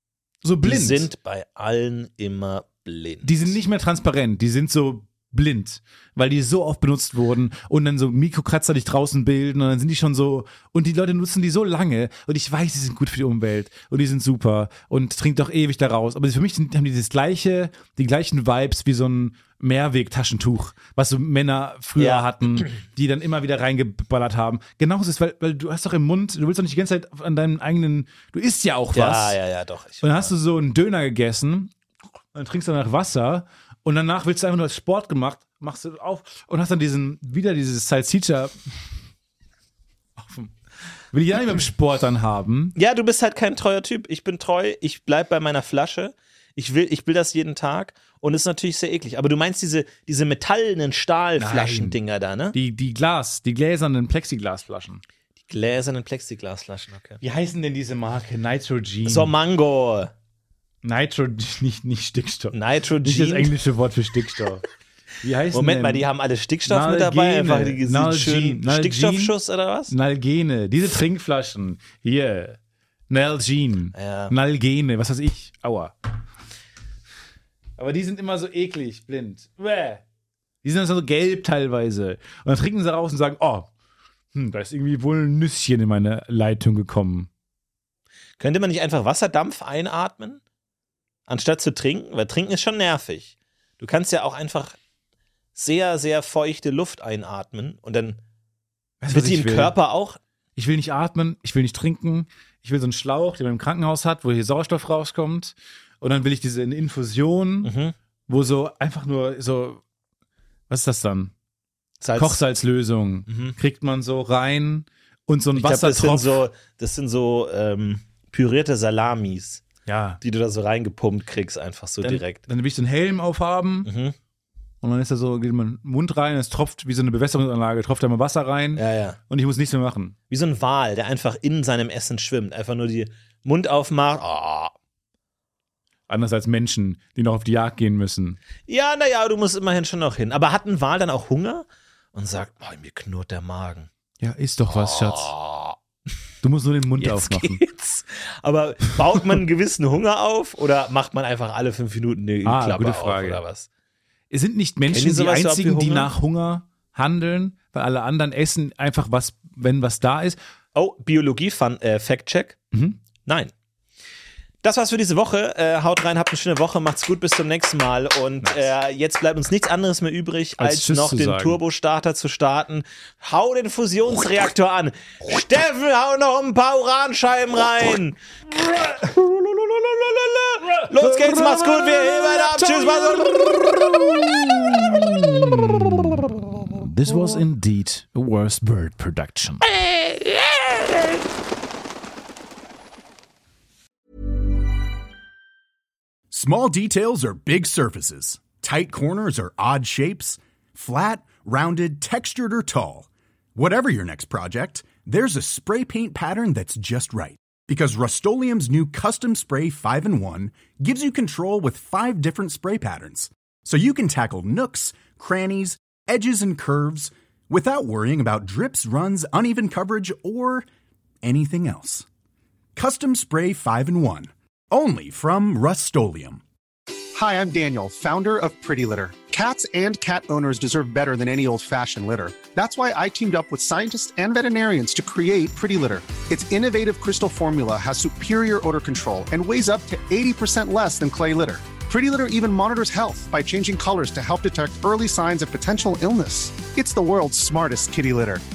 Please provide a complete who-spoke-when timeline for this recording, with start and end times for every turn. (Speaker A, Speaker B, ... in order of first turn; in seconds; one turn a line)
Speaker A: 0.4-1.1
Speaker B: 0.6-3.5
Speaker A: 3.2-29.4
Speaker B: 22.0-22.7
Speaker B: 28.9-30.3
Speaker A: 30.0-31.7
Speaker A: 32.3-38.8
Speaker A: 40.2-40.5
Speaker A: 41.1-42.7
Speaker B: 42.7-52.5
Speaker A: 51.4-52.0
Speaker A: 52.5-55.0
Speaker B: 55.5-57.2
Speaker A: 57.2-59.3
Speaker B: 59.0-60.1
Speaker A: 60.8-64.7
Speaker B: 62.5-63.5
Speaker A: 65.2-66.1
Speaker B: 65.5-69.9
Speaker A: 66.7-69.3
Speaker A: 69.9-72.6
Speaker A: 73.1-75.9
Speaker B: 73.9-74.3
Speaker A: 77.8-80.0
Speaker A: 80.6-83.7
Speaker A: 84.3-87.3
Speaker B: 88.4-90.4
Speaker B: 91.3-94.8
Speaker B: 95.5-98.2
Speaker A: 99.0-99.7
Speaker B: 99.1-100.2
Speaker A: 100.5-107.7
Speaker B: 107.6-107.9
Speaker A: 108.3-109.8
Speaker A: 110.7-111.3
Speaker B: 112.0-112.4
Speaker A: 112.2-116.3
Speaker B: 113.3-113.5
Speaker B: 115.5-119.6
Speaker A: 119.8-120.2
Speaker B: 120.2-122.4
Speaker A: 122.0-123.9
Speaker B: 123.8-124.1
Speaker A: 124.8-130.1
Speaker B: 128.8-129.2
Speaker B: 130.3-134.7
Speaker A: 136.1-138.4
Speaker B: 138.7-143.9
Speaker A: 144.2-145.3
Speaker B: 144.7-145.8
Speaker A: 146.4-147.6
Speaker B: 147.0-153.7
Speaker A: 152.4-153.4
Speaker A: 154.3-160.4
Speaker B: 154.9-156.1
Speaker B: 160.7-162.6
Speaker A: 162.7-163.0
Speaker B: 163.2-163.5
Speaker B: 164.6-183.4
Speaker A: 170.6-171.6
Speaker A: 180.9-189.7
Speaker C: 196.3-220.7
Speaker C: 221.2-222.0
Speaker C: 222.8-226.4
Speaker D: 227.1-248.4